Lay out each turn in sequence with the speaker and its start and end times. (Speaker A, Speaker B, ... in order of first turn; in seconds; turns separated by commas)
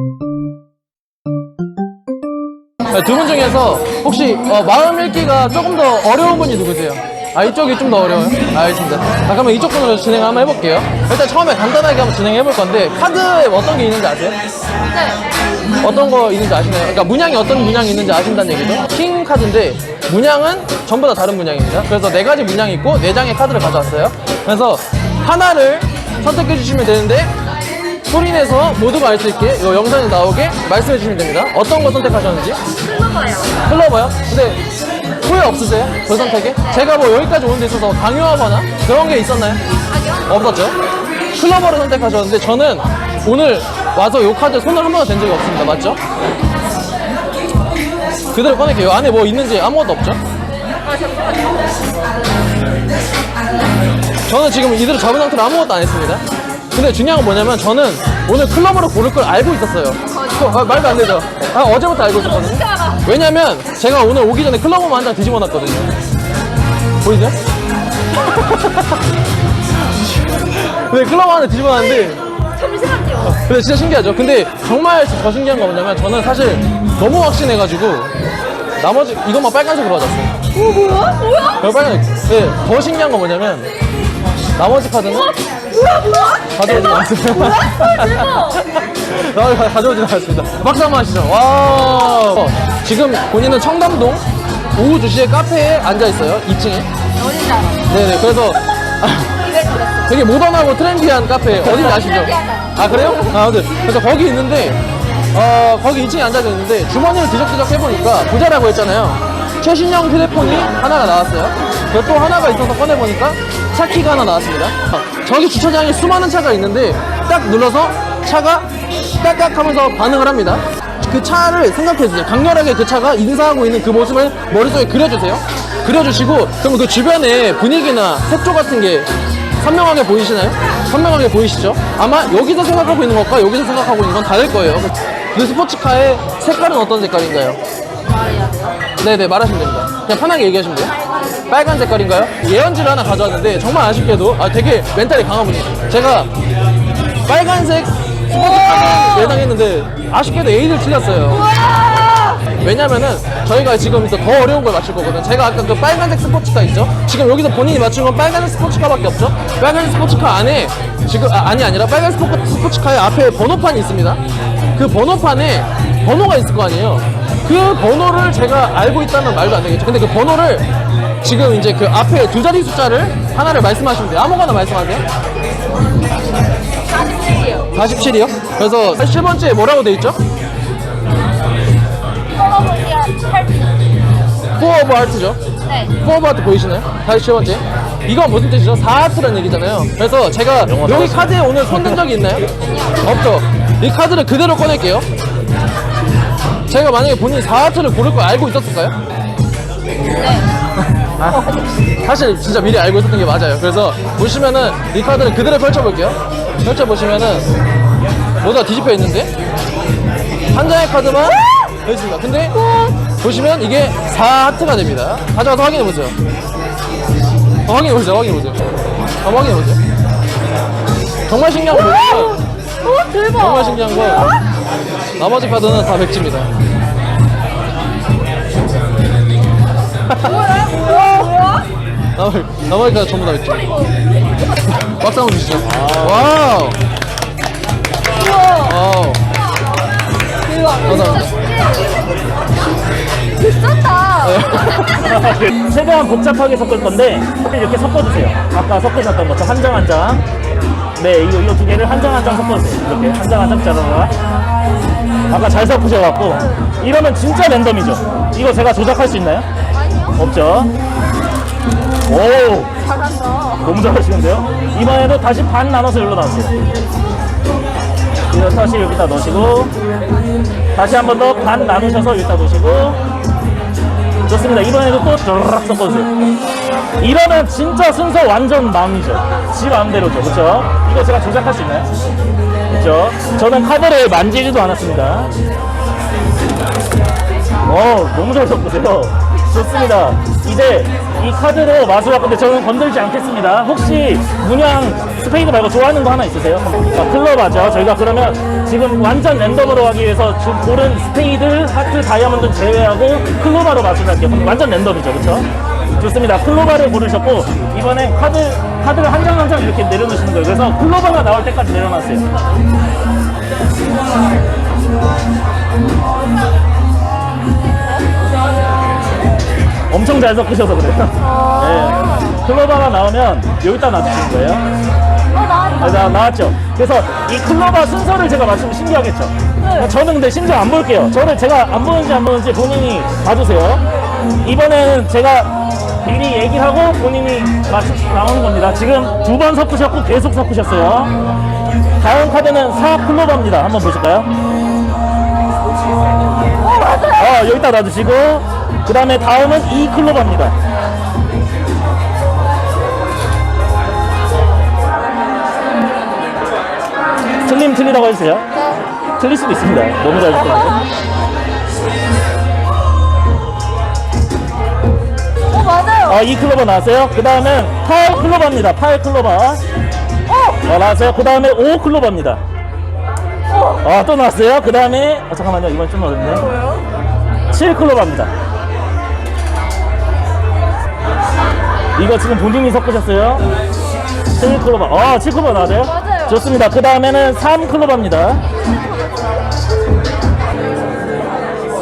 Speaker A: 2.9-14.4, Speaker B: 14.9-15.2, Speaker A: 15.8-27.3, Speaker A: 28.1-32.6, Speaker B: 32.8-33.6, Speaker A: 33.6-34.6, Speaker A: 35.2-39.6, Speaker B: 36.1-36.9, Speaker B: 39.9-40.3, Speaker A: 40.3-40.8, Speaker A: 41.3-46.0, Speaker A: 48.3-50.2, Speaker B: 50.8-51.8, Speaker A: 54.3-65.9, Speaker B: 60.1-60.7, Speaker B: 62.4-63.0, Speaker A: 67.0-67.4, Speaker A: 68.2-68.9, Speaker A: 70.5-72.2, Speaker B: 72.6-73.4, Speaker A: 73.3-78.1, Speaker A: 78.8-80.3, Speaker B: 80.6-81.6, Speaker A: 81.5-83.7, Speaker A: 84.6-85.3, Speaker B: 85.3-88.6, Speaker A: 86.5-94.2, Speaker A: 94.8-96.9, Speaker B: 97.2-97.9, Speaker A: 97.9-99.4, Speaker B: 99.5-100.1, Speaker A: 100.0-104.8, Speaker B: 101.7-103.4, Speaker A: 105.3-137.6, Speaker B: 138.1-138.8, Speaker A: 139.0-140.9, Speaker A: 141.5-146.3, Speaker A: 147.3-151.5, Speaker B: 148.5-149.4, Speaker B: 151.4-152.4, Speaker A: 152.6-164.2, Speaker A: 164.8-170.7, Speaker A: 171.2-175.0, Speaker B: 176.9-177.7, Speaker A: 177.7-180.2, Speaker B: 182.3-183.7, Speaker A: 184.6-185.4, Speaker B: 185.7-185.9, Speaker A: 186.0-192.5, Speaker C: 190.6-192.1, Speaker B: 192.7-193.2, Speaker A: 193.0-195.1, Speaker A: 196.7-199.0, Speaker B: 200.2-200.5, Speaker A: 201.2-201.5, Speaker B: 201.3-201.6, Speaker A: 202.0-207.5, Speaker A: 208.4-209.3, Speaker A: 210.5-212.6, Speaker B: 212.6-212.9, Speaker A: 213.2-216.2, Speaker A: 217.7-218.7, Speaker A: 219.2-219.8, Speaker A: 221.3-222.4, Speaker B: 221.7-224.4, Speaker A: 223.3-224.4, Speaker A: 225.2-226.5, Speaker A: 230.1-231.3, Speaker B: 230.2-231.7, Speaker A: 232.2-233.8, Speaker B: 233.5-233.9, Speaker A: 234.7-236.8, Speaker C: 235.6-236.4, Speaker B: 238.2-238.8, Speaker A: 238.6-239.2, Speaker B: 240.4-242.1, Speaker A: 240.8-241.4, Speaker B: 243.4-245.4, Speaker A: 244.2-245.2, Speaker C: 244.9-250.2, Speaker C: 251.0-254.1, Speaker C: 255.3-259.5, Speaker B: 259.7-260.2, Speaker C: 260.2-260.7, Speaker C: 262.1-262.7, Speaker B: 262.8-263.7, Speaker C: 263.6-266.6, Speaker C: 268.3-269.7, Speaker C: 270.8-273.0, Speaker C: 274.3-276.1, Speaker C: 277.0-281.9, Speaker C: 282.7-285.3, Speaker C: 287.6-305.5, Speaker C: 306.0-312.2, Speaker C: 319.9-324.7, Speaker B: 321.2-322.4, Speaker B: 325.3-326.1, Speaker C: 325.8-333.8, Speaker B: 329.6-329.9, Speaker C: 334.4-341.1, Speaker C: 342.0-344.3, Speaker B: 346.6-347.3, Speaker C: 347.1-350.5, Speaker C: 357.4-358.5, Speaker C: 359.2-360.8, Speaker B: 360.4-360.8, Speaker B: 365.5-366.2, Speaker C: 366.1-369.6, Speaker B: 370.3-370.6, Speaker C: 370.6-372.4, Speaker B: 373.5-373.8, Speaker C: 373.8-376.5, Speaker B: 376.5-376.8, Speaker C: 377.5-378.3, Speaker C: 382.0-383.5, Speaker C: 384.4-388.4, Speaker B: 385.8-386.4